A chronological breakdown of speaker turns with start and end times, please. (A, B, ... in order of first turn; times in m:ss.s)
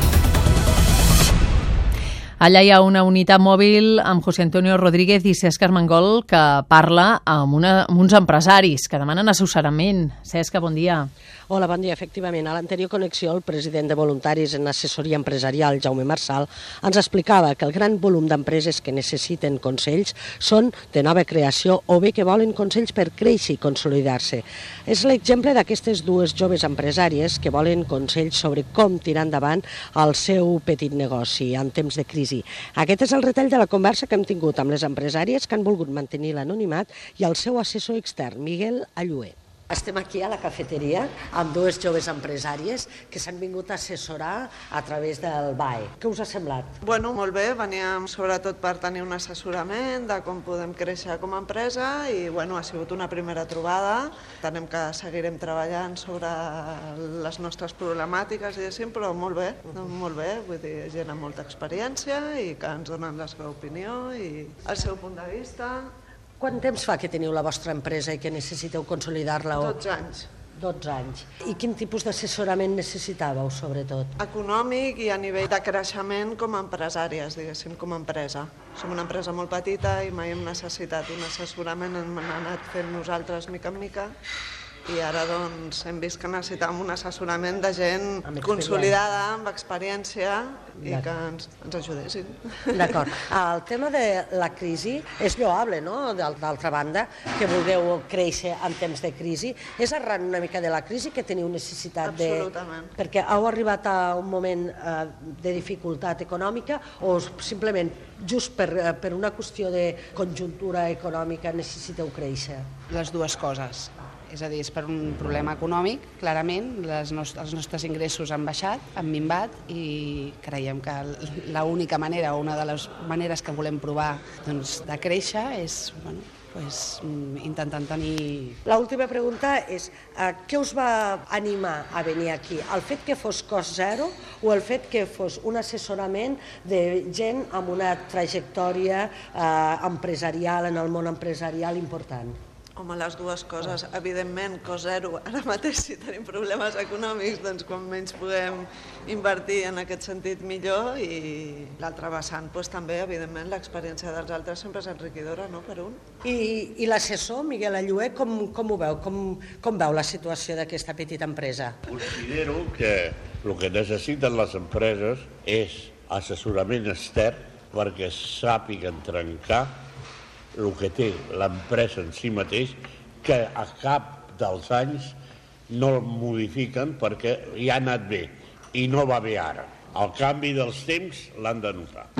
0:02.4-0:11.1 A
0:11.5-0:46.8 B
0:46.8-1:05.9 C
1:06.4-1:09.8 B
1:09.6-1:10.3 C
1:10.6-1:14.2 B
1:14.2-1:24.1 C
1:24.8-1:32.9 C
1:28.3-1:29.0 B
1:30.8-1:31.1 B
1:32.7-1:52.6 B
1:42.0-1:42.9 C
1:52.9-2:08.6 D
2:08.6-2:22.4 B
2:22.8-2:36.0 C
2:36.2-2:41.8 B
2:41.9-2:49.7 E
2:50.5-2:55.2 E
2:55.7-3:02.1 E